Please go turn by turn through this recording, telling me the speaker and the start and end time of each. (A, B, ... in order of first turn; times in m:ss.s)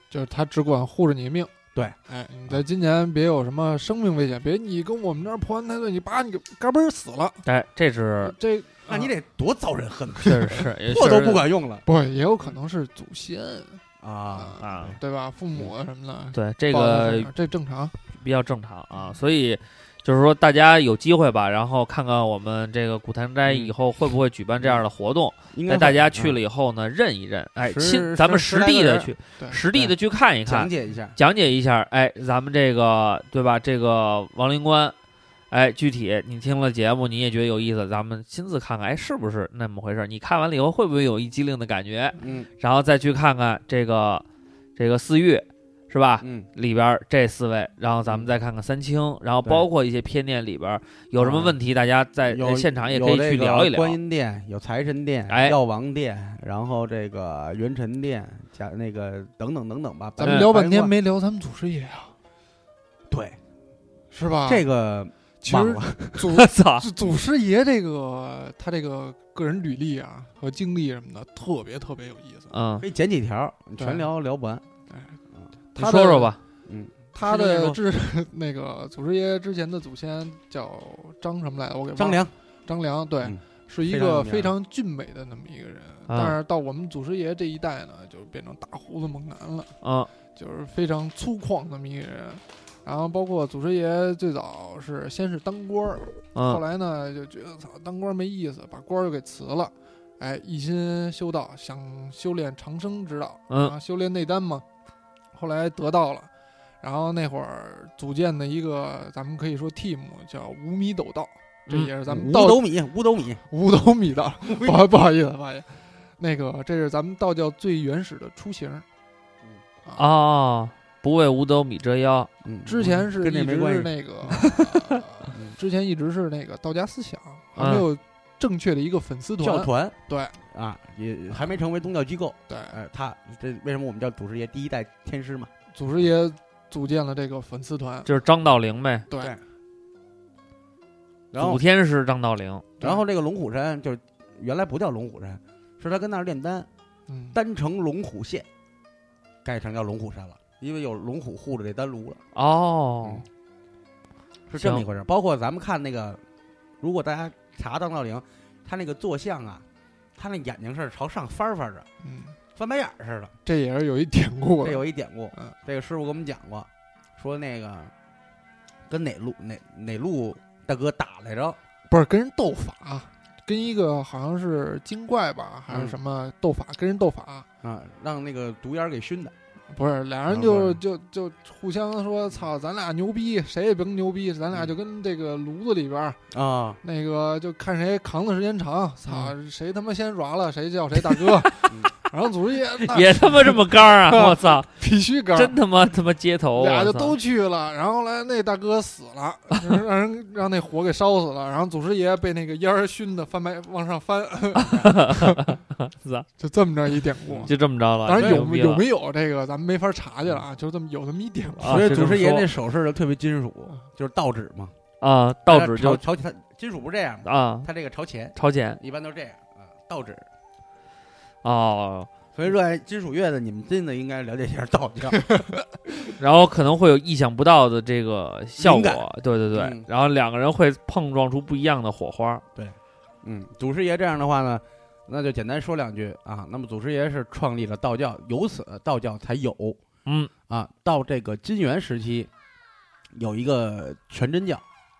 0:00.1-0:01.5 A
0:02.1-0:07.4 A
0:07.4-0:08.4 B
0:08.2-0:09.1 A
0:08.9-0:11.8 C
0:10.2-0:11.4 B
0:10.2-0:10.6 A
0:11.9-0:17.9 A
0:14.0-0:14.6 C
0:14.6-0:15.0 B
0:16.3-0:17.3 B
0:18.2-0:35.0 B
0:23.5-0:23.7 C
0:25.5-0:26.4 C
0:27.6-0:29.1 C
0:30.4-0:31.2 C
0:35.5-0:44.2 B
0:42.2-0:42.5 C
0:44.8-0:54.0 B
0:46.2-0:46.5 C
0:51.2-0:51.6 C
0:52.3-1:00.9 C
0:55.3-0:55.6 B
1:00.2-1:02.1 A
1:03.1-1:03.4 C
1:04.1-1:04.6 A
1:04.5-1:06.3 C
1:05.4-1:12.5 A
1:06.3-1:06.9 B
1:12.5-1:12.8 B
1:12.8-1:14.6 C
1:13.8-1:14.1 A
1:14.9-1:15.2 A
1:15.8-1:16.3 A
1:15.8-1:16.4 B
1:16.7-1:17.8 C
1:17.1-1:29.7 A
1:22.0-1:22.3 C
1:23.2-1:24.5 C
1:26.1-1:26.4 B
1:29.8-1:30.1 B
1:30.4-1:44.6 A
1:36.4-1:36.6 B
1:45.3-1:46.3 A
1:46.8-1:52.6 A
1:52.0-1:53.4 C
1:53.5-1:58.8 A
1:54.4-1:54.8 C
2:00.0-2:02.3 B
2:02.4-2:03.9 C
2:02.6-2:10.4 A
2:04.4-2:05.0 B
2:07.6-2:07.9 B
2:09.4-2:15.5 C
2:12.5-2:12.8 A
2:15.7-2:18.1 A
2:18.1-2:19.1 B
2:19.1-2:19.4 A
2:21.3-2:21.6 C
2:21.4-2:22.7 B
2:22.8-2:26.7 C
2:27.1-2:27.4 A
2:27.3-2:28.5 C
2:29.4-2:32.2 C
2:32.3-2:33.2 B
2:34.5-2:36.2 C
2:34.6-2:34.8 B
2:36.8-2:39.6 C
2:40.2-2:41.9 C
2:42.0-2:42.4 A
2:42.6-2:43.3 C
2:43.5-2:45.6 A
2:44.6-2:47.9 C
2:48.9-2:51.6 C
2:51.9-2:57.5 A
2:55.7-2:56.0 C
2:57.6-2:59.3 C
2:59.7-3:06.2 A
3:00.3-3:00.8 C
3:06.3-3:06.8 C
3:06.8-3:15.6 A
3:12.8-3:14.7 B
3:15.3-3:17.2 B
3:16.6-3:25.6 A
3:24.6-3:26.3 B
3:26.4-3:27.5 A
3:27.3-3:27.5 C
3:27.4-3:28.8 B
3:28.0-3:32.0 A
3:28.2-3:28.5 C
3:31.6-3:32.5 B
3:31.6-3:34.7 C
3:35.0-3:36.0 B
3:35.5-3:40.3 C
3:37.2-3:37.7 B
3:38.4-3:38.8 B
3:41.4-3:42.1 B
3:42.4-3:45.2 C
3:46.2-3:52.4 B
3:48.6-3:49.9 C
3:52.6-3:59.8 C
4:00.1-4:00.3 B
4:00.5-4:02.3 C
4:03.1-4:04.6 C